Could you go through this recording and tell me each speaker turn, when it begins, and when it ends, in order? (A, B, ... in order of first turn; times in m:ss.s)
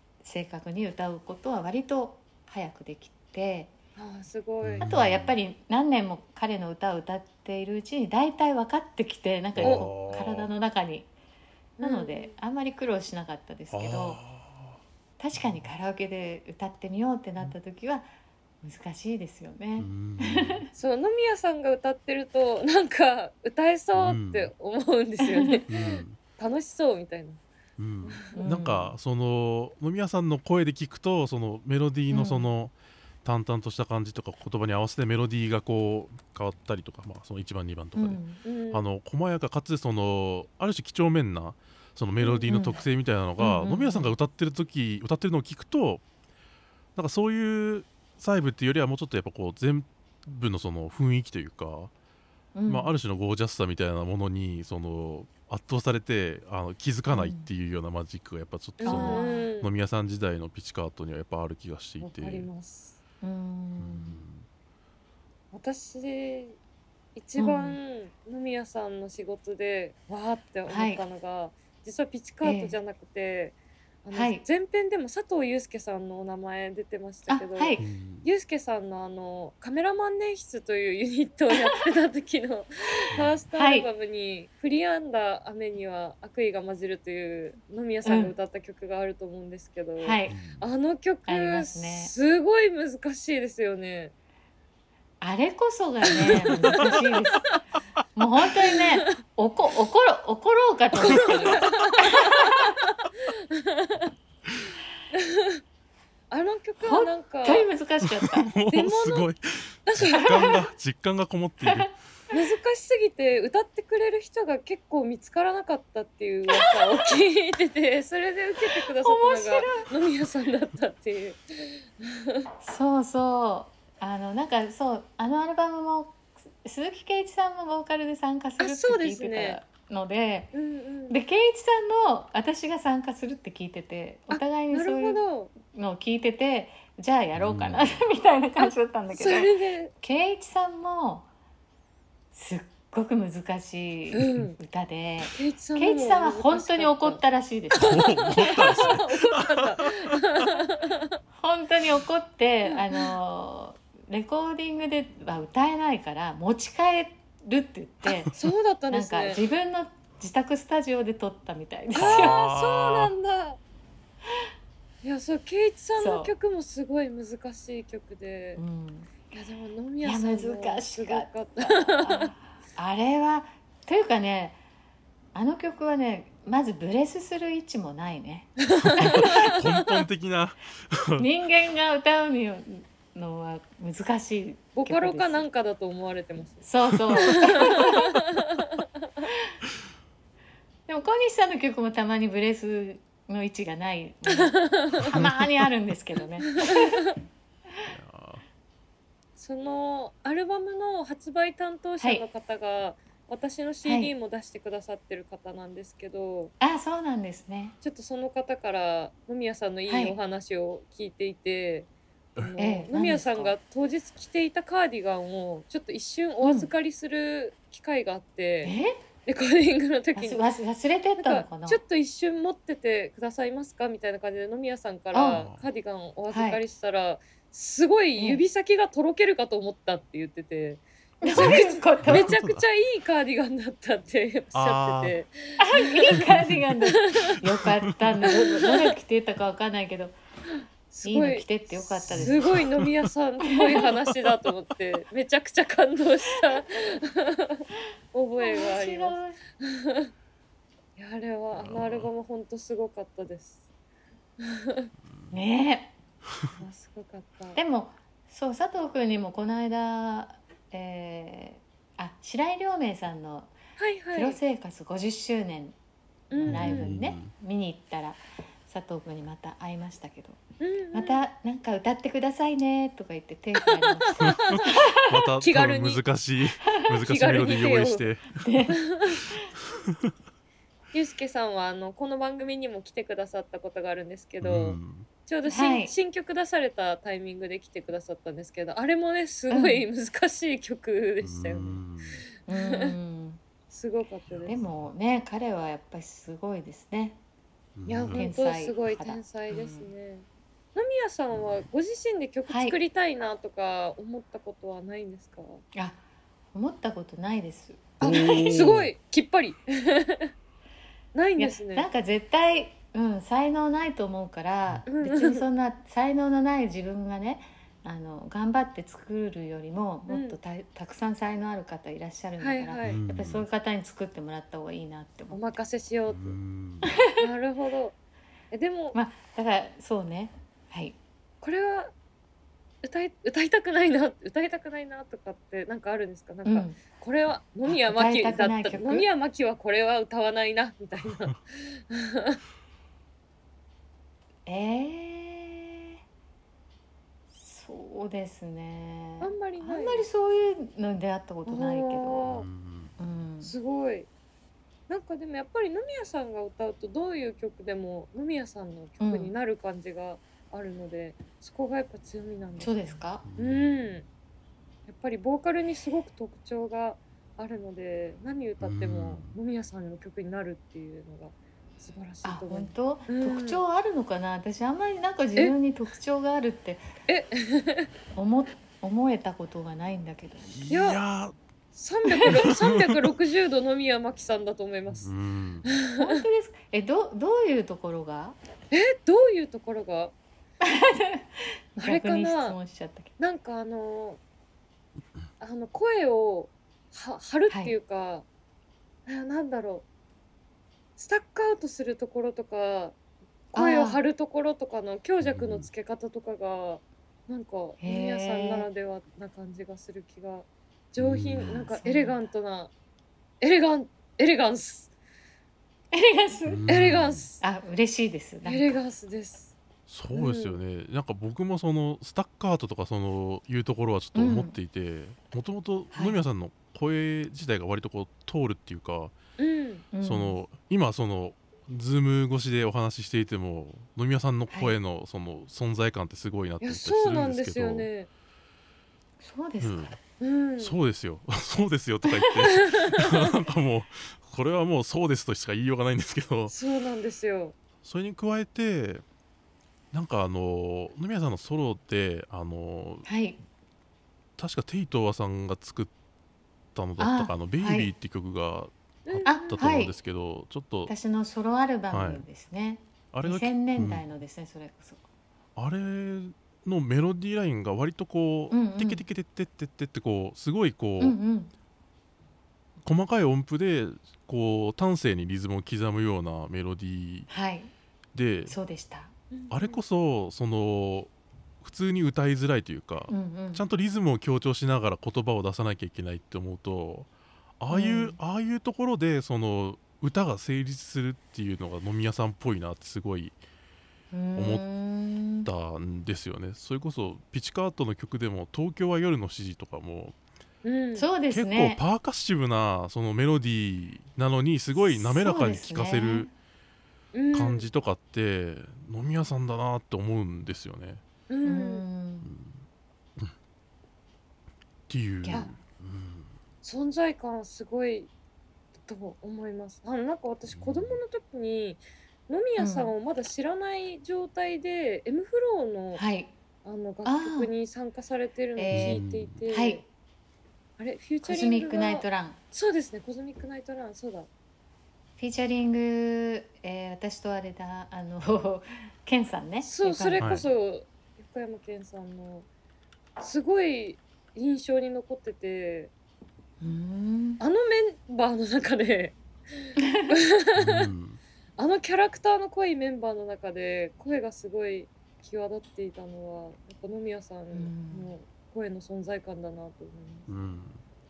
0:00.2-0:03.7 A
0:04.0-0:04.9 B
0:04.6-0:05.3 C
0:04.8-0:11.1 A
0:09.5-0:10.5 C
0:09.6-0:09.9 B
0:11.8-0:14.2 A
0:11.8-0:12.4 B
0:13.7-0:14.8 C
0:15.2-0:18.1 A
0:15.3-0:15.7 C
0:18.6-0:20.7 A
0:19.8-0:20.6 C
0:20.8-0:27.4 B
0:24.0-0:24.5 C
0:25.2-0:25.6 A
0:25.7-0:26.2 C
0:27.8-0:46.0 C
0:28.0-0:28.5 B
0:28.4-0:29.0 A
0:32.1-0:32.5 A
0:38.0-0:38.4 A
0:38.4-0:38.8 B
0:42.2-0:42.5 B
0:42.5-0:42.8 A
0:43.4-0:44.1 A
0:47.0-0:51.9 C
0:52.5-0:52.9 A
0:52.7-1:02.5 C
0:57.1-0:57.5 A
0:58.8-0:59.7 B
0:58.8-0:59.5 A
1:02.0-1:03.0 B
1:03.2-1:04.2 A
1:03.8-1:04.4 C
1:05.5-1:06.6 B
1:07.1-1:34.1 B
1:07.4-1:07.8 A
1:10.6-1:11.0 A
1:12.4-1:12.8 A
1:14.1-1:14.4 A
1:17.3-1:17.8 A
1:17.8-1:18.3 C
1:23.1-1:23.4 C
1:23.5-1:23.9 A
1:28.0-1:28.4 A
1:30.0-1:30.4 A
1:30.3-1:30.6 C
1:31.2-1:32.1 A
1:35.2-1:37.5 A
1:36.1-1:37.1 B
1:36.3-1:36.9 C
1:38.2-1:42.7 A
1:38.6-1:39.1 B
1:41.0-1:44.1 B
1:41.1-1:41.8 C
1:45.1-1:45.6 B
1:46.3-1:47.7 B
1:46.8-1:48.5 A
1:48.0-1:51.9 C
1:48.7-1:49.3 B
1:49.8-1:50.6 B
1:50.1-1:50.6 A
1:51.6-1:52.3 A
1:52.3-2:02.5 B
1:56.5-1:57.1 A
1:58.7-1:59.8 A
2:02.6-2:10.5 A
2:08.6-2:09.6 B
2:10.5-2:11.2 B
2:11.1-2:21.3 A
2:14.3-2:15.5 B
2:17.3-2:18.0 C
2:18.6-2:19.9 B
2:22.3-2:28.9 A
2:24.1-2:24.6 B
2:25.3-2:27.2 B
2:27.8-2:30.2 C
2:27.8-2:31.2 B
2:31.4-2:38.3 A
2:32.6-2:33.1 B
2:38.0-2:38.4 C
2:38.4-2:39.4 B
2:38.9-2:42.4 A
2:41.9-2:43.6 B
2:42.0-2:43.1 C
2:45.0-2:48.6 B
2:46.0-2:46.3 A
2:48.6-2:49.1 A
2:49.3-2:52.3 B
2:50.0-2:54.6 A
2:55.3-2:59.4 A
2:58.6-2:59.9 B
2:58.8-3:01.3 C
3:01.2-3:05.4 A
3:04.8-3:09.2 B
3:06.6-3:08.2 A
3:10.9-3:17.0 A
3:14.3-3:15.1 B
3:15.0-3:15.4 C
3:16.5-3:17.2 B
3:17.8-3:18.4 C
3:19.4-3:26.5 B
3:23.8-3:24.1 A
3:26.6-3:27.8 A
3:27.8-3:40.4 B
3:29.9-3:30.2 A
3:32.6-3:33.5 A
3:36.4-3:36.7 A
3:38.6-3:39.0 A
3:40.1-3:41.8 A
3:41.2-3:56.1 B
3:45.1-3:45.4 A
3:46.3-3:46.6 A
3:48.2-3:48.4 A
3:51.2-3:52.4 A
3:51.3-3:52.6 C
3:54.5-3:55.2 C
3:55.6-4:00.2 A
3:56.1-3:58.3 C
3:56.8-3:57.4 B
3:58.2-3:58.9 B
4:00.9-4:10.1 B
4:01.0-4:02.6 A
4:02.1-4:02.9 C
4:03.6-4:03.8 A
4:08.4-4:09.4 A
4:11.0-4:13.6 B
4:11.5-4:12.1 C
4:14.4-4:14.9 B
4:15.3-4:15.9 A
4:16.5-4:17.6 B
4:17.5-4:23.5 A
4:23.8-4:24.4 B
4:24.1-4:25.8 A
4:26.3-4:26.9 B
4:26.4-4:30.4 A
4:26.4-4:27.3 C
4:30.6-4:31.2 B
4:30.9-4:35.2 A
4:33.6-4:34.8 B
4:34.2-4:38.4 C
4:35.4-4:36.0 B
4:37.0-4:38.0 B
4:38.4-4:38.8 A
4:38.8-4:39.2 B
4:40.9-4:51.8 B
4:44.4-4:45.1 C
4:45.4-4:45.9 A
4:49.5-4:49.8 A
4:51.2-4:52.2 C
4:52.5-4:53.4 A
4:52.5-4:52.9 B
4:53.7-4:54.6 B
4:54.3-4:54.7 C
4:54.5-4:57.2 A
4:57.8-4:58.2 C
4:57.9-5:05.6 B
4:58.1-4:59.9 A
5:02.5-5:02.8 A
5:05.7-5:06.0 A
5:06.5-5:08.8 A
5:08.0-5:08.9 C
5:08.0-5:10.3 B
5:11.1-5:11.9 B
5:11.4-5:25.4 A
5:14.9-5:15.4 B
5:20.1-5:20.4 B
5:22.4-5:23.0 B
5:22.8-5:23.4 C
5:25.3-5:26.4 B
5:26.1-5:26.9 C
5:26.8-5:27.2 A
5:27.2-5:28.0 B
5:28.5-5:29.0 B
5:28.9-5:31.0 A
5:31.4-5:31.9 B
5:32.8-5:42.4 B
5:36.4-5:36.8 A
5:37.6-5:39.1 A
5:44.4-5:46.0 A
5:47.3-5:52.3 A
5:49.2-5:50.1 B
5:51.4-5:52.5 B
5:52.2-5:52.9 C
5:53.0-5:53.5 A
5:53.4-5:54.1 B
5:54.9-6:04.0 B
5:59.0-5:59.3 A
6:02.6-6:03.2 A
6:03.2-6:03.7 C
6:04.9-6:13.6 B
6:08.6-6:09.4 C
6:12.2-6:16.8 A
6:17.1-6:17.9 B
6:18.1-6:20.6 A
6:20.5-6:21.3 C
6:20.7-6:21.0 B
6:21.7-6:25.1 B
6:22.2-6:23.0 C
6:24.9-6:25.7 C
6:25.7-6:26.2 B
6:26.0-6:28.4 A
6:28.7-6:30.1 B
6:30.6-6:33.1 A
6:31.8-6:32.6 B
6:33.2-6:34.2 B
6:35.4-6:38.2 B
6:37.5-6:37.8 A
6:39.0-6:39.8 B
6:41.0-6:43.0 B
6:43.5-6:52.7 B
6:43.5-6:44.0 A
6:45.2-6:45.7 C
6:47.8-6:48.7 A
6:51.0-6:51.7 C
6:51.7-6:52.3 A
6:53.4-6:54.9 B
6:55.9-6:56.7 A
6:56.5-6:57.2 C
6:56.7-6:57.4 B
6:57.4-6:58.8 A
6:58.4-6:59.5 B
6:59.9-7:09.1 C
7:00.1-7:00.6 B
7:04.1-7:04.6 A
7:05.9-7:06.2 A
7:09.4-7:09.9 B
7:09.9-7:10.4 A
7:10.0-7:17.9 C
7:14.5-7:14.7 A
7:16.6-7:18.1 B
7:19.2-7:20.0 A
7:19.6-7:20.0 C
7:20.2-7:20.8 B
7:20.6-7:26.5 C
7:22.6-7:23.2 B
7:26.5-7:27.5 B
7:27.8-7:29.0 C
7:29.9-7:33.1 C
7:33.1-7:33.4 A
7:34.4-7:35.9 C
7:36.7-7:40.9 C
7:37.0-7:37.9 A
7:39.1-7:39.6 B
7:39.2-7:39.9 A
7:40.9-7:45.0 A
7:41.9-7:42.2 C
7:43.1-7:44.0 C
7:45.6-7:51.2 C
7:48.5-7:49.0 A
7:51.0-7:51.5 A
7:52.8-7:57.3 C
7:57.3-7:57.7 A
7:58.1-7:58.6 C
7:58.5-7:59.1 A
7:59.3-7:59.8 B
7:59.5-8:01.1 C
8:01.6-8:13.4 C
8:03.1-8:03.6 A
8:07.7-8:08.2 A
8:14.1-8:15.5 A
8:14.4-8:14.6 C
8:15.4-8:20.2 C
8:20.6-8:21.1 B
8:21.0-8:21.8 A
8:21.3-8:26.3 C
8:24.8-8:26.3 A
8:27.1-8:27.7 B
8:27.3-8:31.0 C
8:31.3-8:31.8 B
8:31.4-8:32.3 A
8:32.2-8:32.6 C
8:34.9-8:36.3 C
8:35.2-8:35.5 A
8:36.6-8:38.1 B
8:38.9-8:46.0 B
8:40.5-8:41.0 C
8:42.6-8:42.9 A
8:45.9-8:46.3 A
8:46.6-8:49.8 B
8:47.0-8:47.5 A
8:48.6-8:49.8 A
8:48.7-8:49.4 C
8:50.8-8:54.3 B
8:51.2-8:52.4 A
8:55.2-9:00.3 A
8:59.6-9:02.5 B
9:00.2-9:00.5 C
9:03.2-9:05.9 B
9:06.6-9:07.4 A
9:07.4-9:10.9 B
9:09.8-9:10.2 A
9:10.6-9:11.2 C
9:11.6-9:20.3 B
9:17.5-9:18.1 A
9:20.3-9:20.8 C